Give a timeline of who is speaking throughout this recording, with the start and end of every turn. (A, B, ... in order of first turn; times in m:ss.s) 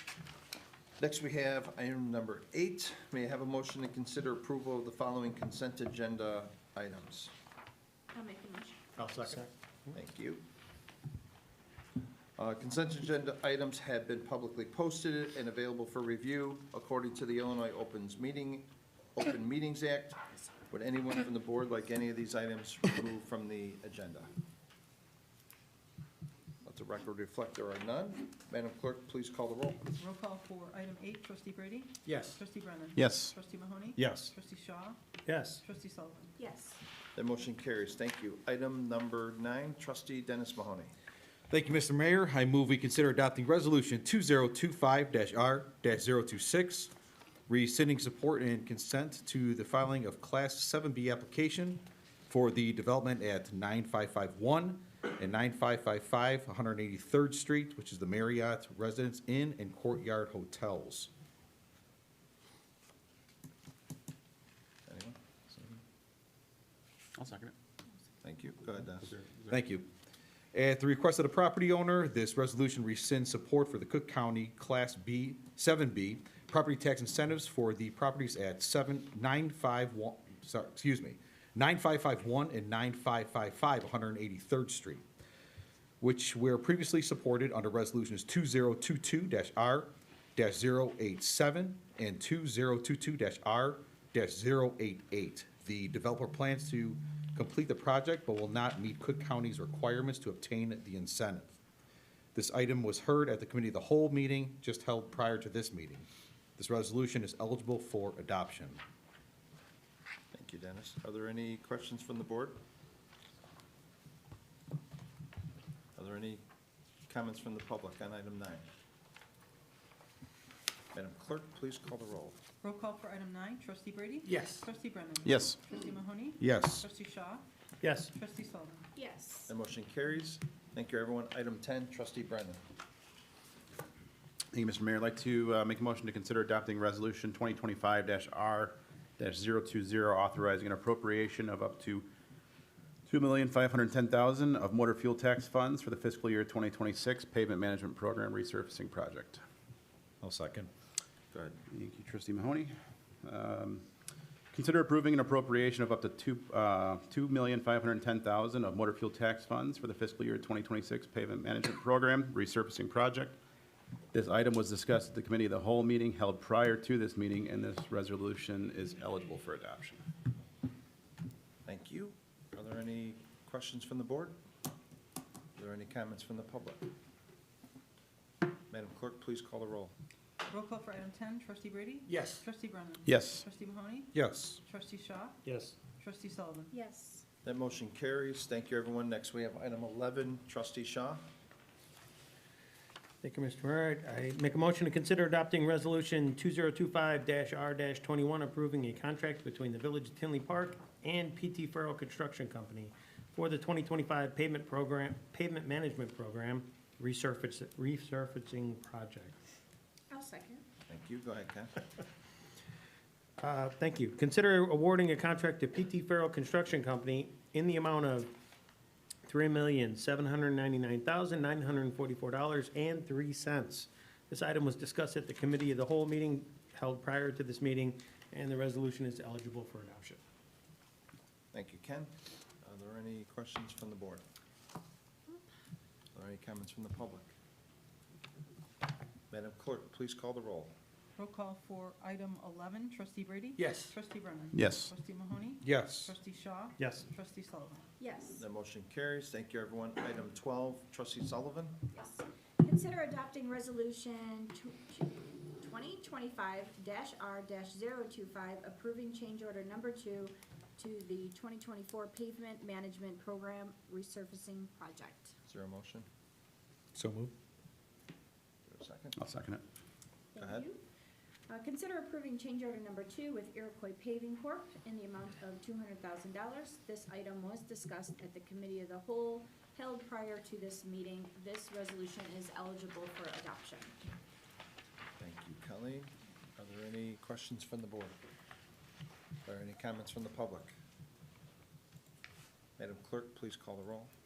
0:01.0-0:07.3 A
0:08.1-0:08.8 B
0:09.0-0:09.5 C
0:09.9-0:10.4 A
0:12.4-0:24.3 A
0:26.6-0:29.8 A
0:30.0-0:35.0 D
0:32.0-0:32.4 C
0:33.0-0:33.3 E
0:34.0-0:34.3 F
0:35.3-0:35.6 C
0:35.6-0:36.3 D
0:36.4-0:36.8 B
0:37.2-0:40.9 A
0:41.5-0:46.9 F
0:47.5-1:01.1 F
1:04.9-1:05.8 A
1:07.2-1:07.5 E
1:08.2-1:09.1 A
1:09.1-1:09.5 E
1:09.5-1:09.9 F
1:10.5-1:25.0 F
1:26.0-1:41.6 F
1:42.4-1:46.1 F
1:46.6-1:48.8 F
1:50.3-1:52.6 A
1:56.0-1:56.4 A
1:57.1-1:58.6 A
2:00.9-2:02.4 A
2:02.6-2:07.4 D
2:04.3-2:04.6 C
2:05.2-2:05.6 E
2:06.4-2:06.9 F
2:07.8-2:08.1 C
2:08.1-2:08.9 D
2:09.0-2:09.5 B
2:09.5-2:12.6 A
2:14.5-2:22.1 E
2:23.1-2:29.4 E
2:30.2-2:30.7 F
2:31.3-2:31.6 A
2:31.7-2:32.7 E
2:33.2-2:33.8 E
2:34.5-2:43.4 E
2:44.1-2:50.0 E
2:51.7-2:54.4 A
2:55.6-2:56.9 A
2:58.7-2:59.9 A
3:00.5-3:05.4 D
3:02.1-3:02.4 C
3:03.0-3:03.4 E
3:04.1-3:04.6 F
3:05.4-3:05.8 C
3:06.0-3:06.7 D
3:06.7-3:07.2 B
3:07.4-3:11.2 A
3:13.2-3:29.4 C
3:30.1-3:30.6 B
3:30.9-3:31.7 A
3:33.4-3:38.3 C
3:39.3-3:50.2 C
3:51.5-3:52.1 A
3:52.6-3:54.2 A
3:56.2-3:57.3 A
3:59.3-4:00.7 A
4:01.2-4:07.9 D
4:03.6-4:03.9 C
4:04.5-4:04.9 E
4:05.6-4:06.1 F
4:06.8-4:07.0 C
4:08.0-4:08.4 B
4:08.4-4:11.8 A
4:11.9-4:25.3 B
4:25.5-4:26.1 A
4:27.0-4:27.3 F
4:28.7-4:29.2 A
4:29.2-4:29.6 E
4:30.3-4:30.8 B
4:30.4-4:30.7 A
4:31.5-4:44.0 B
4:45.2-4:48.2 A
4:49.4-4:50.7 A
4:52.8-4:54.1 A